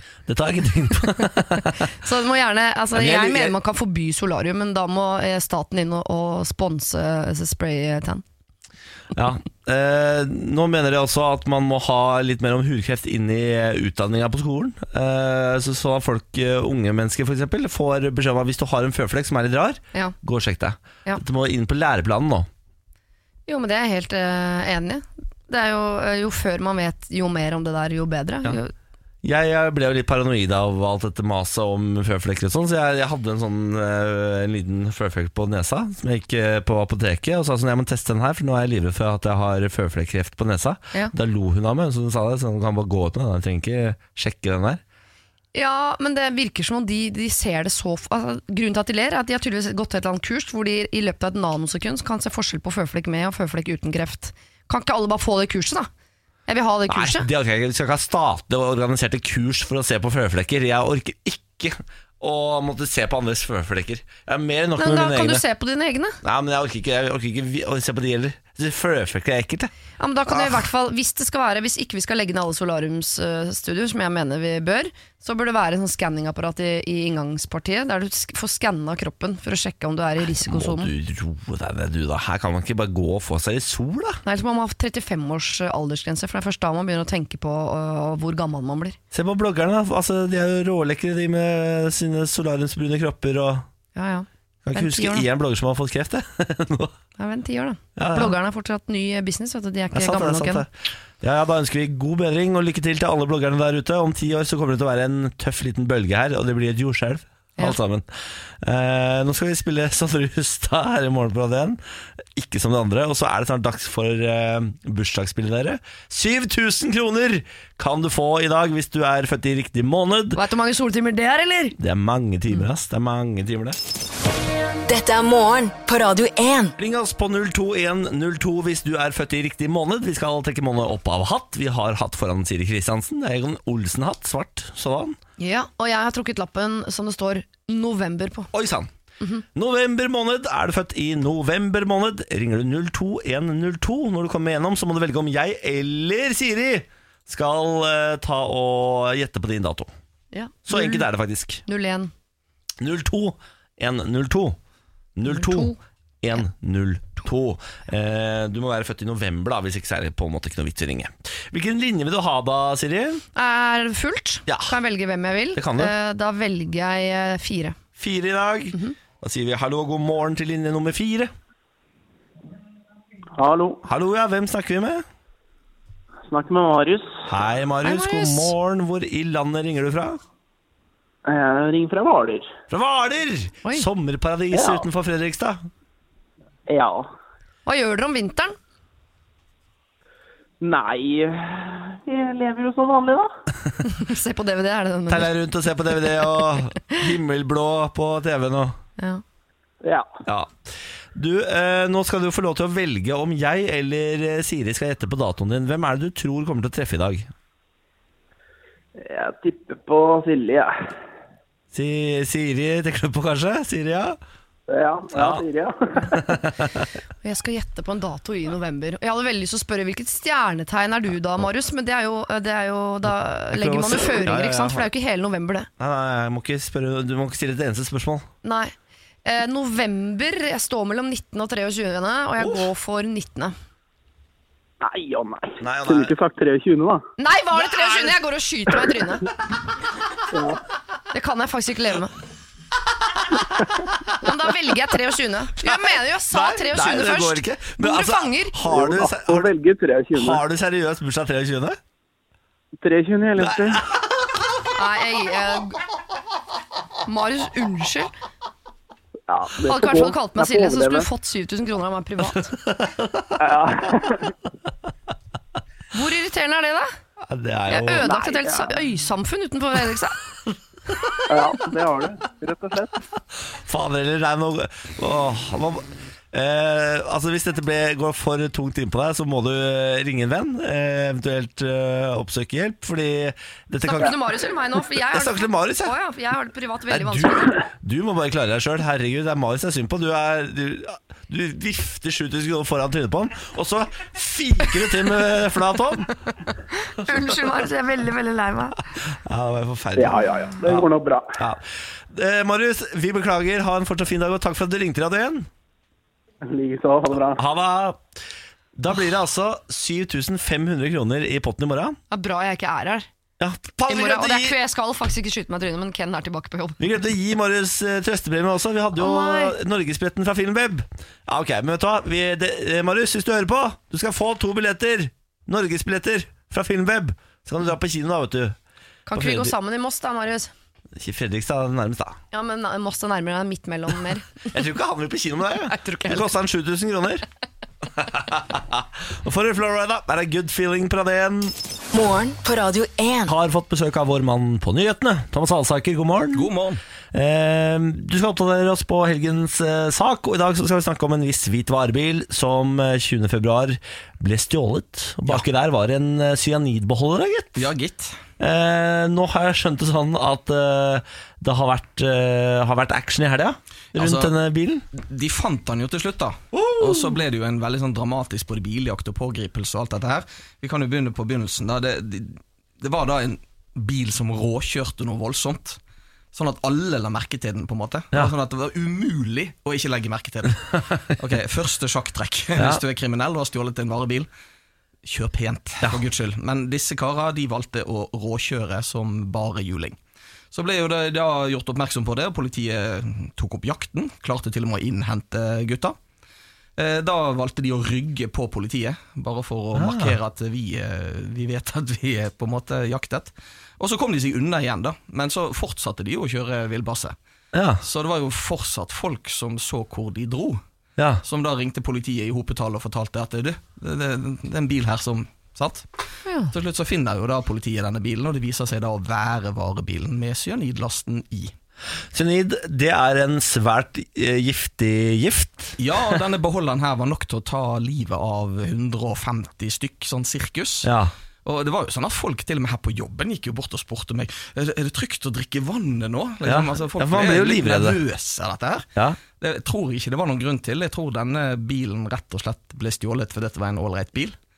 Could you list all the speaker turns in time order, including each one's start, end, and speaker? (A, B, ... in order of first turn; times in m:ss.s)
0:00.3-0:01.9 A
0:01.8-0:08.2 B
0:02.9-0:03.6 A
0:09.1-0:22.5 A
0:23.5-0:28.7 B
0:29.2-0:44.8 A
0:45.5-0:55.9 B
0:56.5-0:57.3 B
0:56.9-1:05.4 A
1:04.8-1:06.2 B
1:06.2-1:09.7 A
1:10.0-1:20.9 B
1:10.3-1:10.6 A
1:20.4-1:24.2 A
1:24.2-1:29.0 B
1:29.1-1:33.7 A
1:34.0-1:35.3 B
1:34.6-1:37.0 A
1:37.2-1:40.6 B
1:38.0-1:38.3 A
1:39.9-1:48.1 A
1:48.6-2:00.4 A
2:00.3-2:01.8 B
2:01.8-2:03.8 A
2:04.9-2:06.7 C
2:06.8-2:15.2 A
2:15.4-2:18.5 B
2:18.5-2:18.9 A
2:19.5-2:29.9 A
2:30.3-2:31.1 B
2:30.7-2:31.6 A
2:31.7-2:32.1 B
2:32.8-2:34.6 A
2:35.2-2:43.2 A
2:35.3-2:35.8 B
2:43.4-2:47.8 B
2:44.5-2:44.8 A
2:45.6-2:45.9 A
2:48.0-2:51.3 A
2:53.4-2:53.8 D
2:53.8-2:55.0 A
2:56.2-2:57.3 D
2:57.3-3:00.2 A
2:57.8-2:58.5 B
3:01.3-3:02.5 D
3:02.7-3:05.7 A
3:04.5-3:04.9 D
3:06.7-3:07.1 D
3:07.7-3:08.6 B
3:10.6-3:13.3 D
3:13.8-3:15.3 B
3:15.1-3:18.8 A
3:19.8-3:20.1 D
3:20.3-3:27.3 A
3:29.0-3:30.7 D
3:31.7-3:34.2 A
3:34.7-3:36.2 D
3:35.1-3:35.4 A
3:36.1-3:36.9 A
3:37.2-3:45.7 B
3:43.5-3:44.9 A
3:45.8-3:48.3 A
3:48.4-3:48.7 B
3:49.2-3:53.5 B
3:52.4-3:52.7 A
3:54.8-3:57.0 D
3:55.6-3:56.1 A
3:57.2-3:59.3 B
3:57.6-3:58.2 A
4:00.3-4:00.6 D
4:01.1-4:02.2 B
4:04.1-4:08.6 B
4:05.6-4:09.5 A
4:08.6-4:10.4 D
4:10.1-4:11.8 A
4:12.8-4:13.8 D
4:13.4-4:13.8 A
4:14.8-4:15.8 B
4:17.1-4:18.1 B
4:19.3-4:21.1 D
4:19.6-4:22.5 B
4:22.4-4:23.4 A
4:23.4-4:24.4 D
4:25.9-4:26.9 B
4:27.2-4:28.1 A
4:27.7-4:30.2 B
4:28.0-4:28.7 D
4:31.3-4:32.9 D
4:33.6-4:44.2 A
4:43.8-4:47.5 B
4:45.1-4:46.0 A
4:46.9-4:56.1 A
4:56.7-4:58.8 B
4:59.0-5:05.5 A
5:00.0-5:01.4 D
5:06.4-5:07.4 D
5:07.4-5:08.0 A
5:08.8-5:12.0 A
5:12.1-5:13.1 B
5:13.4-5:14.6 A
5:13.9-5:16.8 B
5:16.8-5:28.6 A
5:19.0-5:19.6 B
5:29.1-5:30.5 B
5:29.1-5:29.5 A
5:31.0-5:32.2 A
5:32.3-5:34.5 B
5:34.5-5:37.2 A
5:35.7-5:36.3 B
5:37.9-5:41.6 A
5:41.9-5:43.3 C
5:43.3-5:46.5 A
5:46.3-5:46.8 E
5:47.1-5:57.7 A
5:57.6-5:58.2 E
5:58.4-6:04.9 A
6:03.9-6:04.3 E
6:04.9-6:15.8 E
6:06.5-6:07.2 A
6:16.3-6:24.3 E
6:22.6-6:22.8 A
6:25.0-6:30.0 E
6:30.5-6:36.0 E
6:36.8-6:47.2 E
6:39.8-6:40.2 A
6:47.5-6:47.8 A
6:47.8-6:50.6 E
6:51.0-6:51.2 A
6:51.2-6:55.9 E
6:56.3-6:56.5 B
6:56.5-7:01.5 E
7:02.1-7:05.8 A
7:05.8-7:10.9 E
7:10.8-7:11.1 A
7:11.4-7:24.4 E
7:16.4-7:18.0 A